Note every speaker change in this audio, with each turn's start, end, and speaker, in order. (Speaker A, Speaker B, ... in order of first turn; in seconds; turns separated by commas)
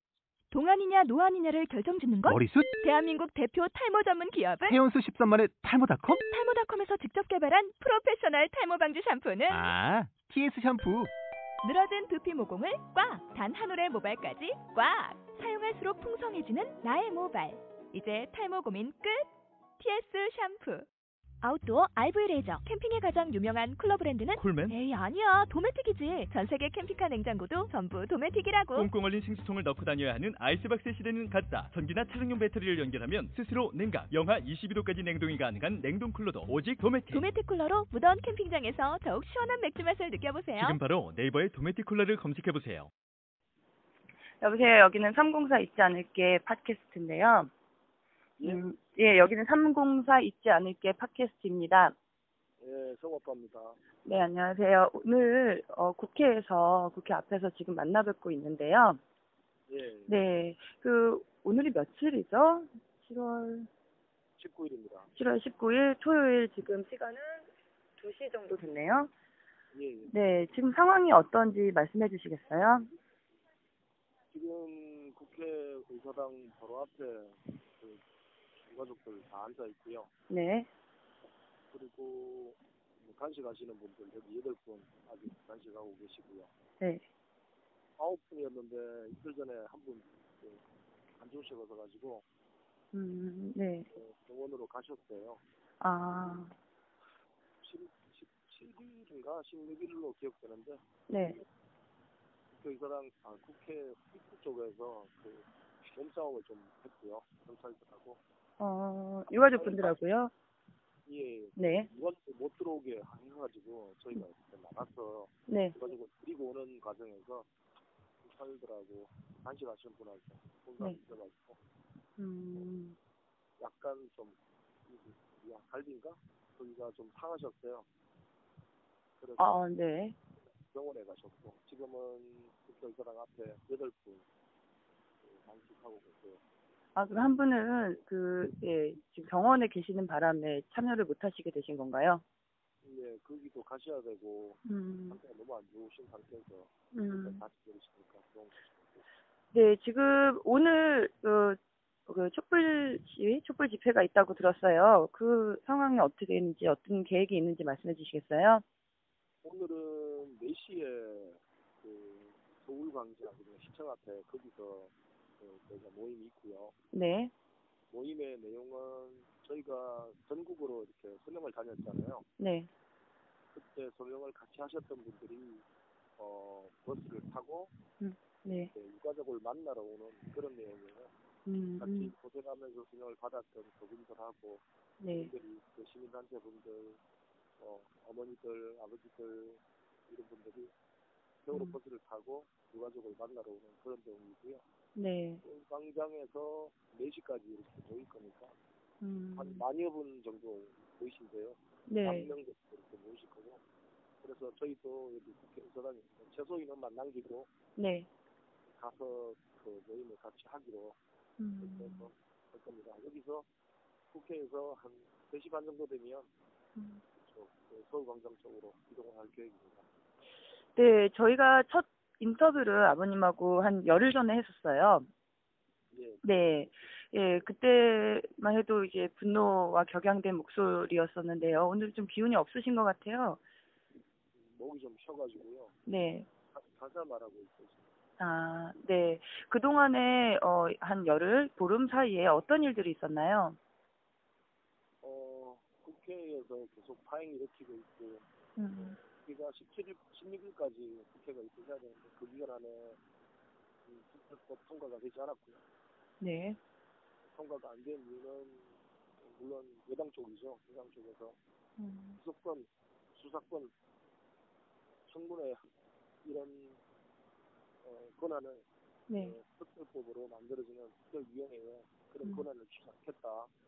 Speaker A: 0.5-4.7, Speaker B: 2.2-2.7, Speaker B: 4.6-6.2, Speaker A: 6.2-9.7, Speaker B: 9.5-11.1, Speaker A: 11.6-19.3, Speaker A: 19.8-20.9, Speaker A: 21.4-28.9, Speaker C: 24.4-24.8, Speaker C: 28.7-37.3, Speaker A: 37.1-40.8, Speaker C: 40.6-42.9, Speaker D: 44.4-47.5, Speaker E: 48.4-48.6, Speaker D: 48.4-52.0, Speaker E: 52.6-53.8, Speaker D: 54.0-59.0, Speaker E: 59.7-60.2, Speaker D: 60.1-63.7, Speaker E: 64.4-65.1, Speaker D: 65.1-69.1, Speaker E: 69.7-70.1, Speaker D: 70.1-72.9, Speaker E: 74.3-78.0, Speaker E: 78.6-80.1, Speaker D: 80.3-80.7, Speaker E: 81.7-86.5, Speaker E: 88.0-90.6, Speaker E: 91.2-92.2, Speaker D: 92.9-93.9, Speaker E: 93.9-95.4, Speaker D: 95.8-96.5, Speaker E: 97.6-101.4, Speaker D: 101.1-101.4, Speaker E: 102.5-108.2, Speaker D: 108.6-110.3, Speaker E: 109.5-110.0, Speaker E: 111.0-117.5, Speaker D: 111.6-111.9, Speaker D: 115.5-115.8, Speaker E: 118.2-121.6, Speaker D: 122.2-123.0, Speaker E: 123.6-127.9, Speaker E: 129.2-129.7, Speaker D: 129.4-130.2, Speaker E: 130.7-134.3, Speaker E: 135.2-136.4, Speaker D: 136.9-142.2, Speaker E: 142.8-148.6, Speaker D: 144.7-145.2, Speaker D: 146.9-147.4, Speaker D: 149.5-158.6, Speaker E: 159.4-166.7, Speaker D: 166.9-167.3, Speaker E: 167.9-172.2, Speaker D: 172.4-172.7, Speaker E: 173.5-175.7, Speaker E: 176.2-177.7, Speaker D: 178.0-178.7, Speaker E: 178.7-181.1, Speaker D: 181.4-182.1, Speaker E: 181.8-187.0, Speaker D: 185.0-185.3, Speaker E: 187.6-190.7, Speaker E: 191.4-194.6, Speaker D: 191.5-191.8, Speaker D: 194.9-195.4, Speaker E: 195.4-198.6, Speaker D: 199.0-199.6, Speaker E: 199.3-203.6, Speaker D: 201.9-202.3, Speaker E: 204.2-207.5, Speaker D: 207.8-208.1, Speaker E: 208.7-211.0, Speaker D: 211.4-212.1, Speaker E: 211.6-213.5, Speaker E: 214.1-216.3, Speaker D: 216.8-217.0, Speaker E: 217.2-219.9, Speaker D: 220.8-225.1, Speaker E: 225.9-226.9, Speaker D: 226.2-233.4, Speaker E: 234.3-235.8, Speaker D: 235.9-236.3, Speaker E: 236.4-237.9, Speaker D: 238.2-243.6, Speaker E: 245.0-248.2, Speaker D: 248.6-249.0, Speaker E: 248.8-253.0, Speaker E: 253.8-255.6, Speaker D: 256.2-256.6, Speaker E: 257.2-261.4, Speaker D: 261.8-262.2, Speaker E: 262.2-263.7, Speaker E: 265.1-265.6, Speaker E: 266.2-266.8, Speaker E: 267.8-273.5, Speaker D: 269.1-269.4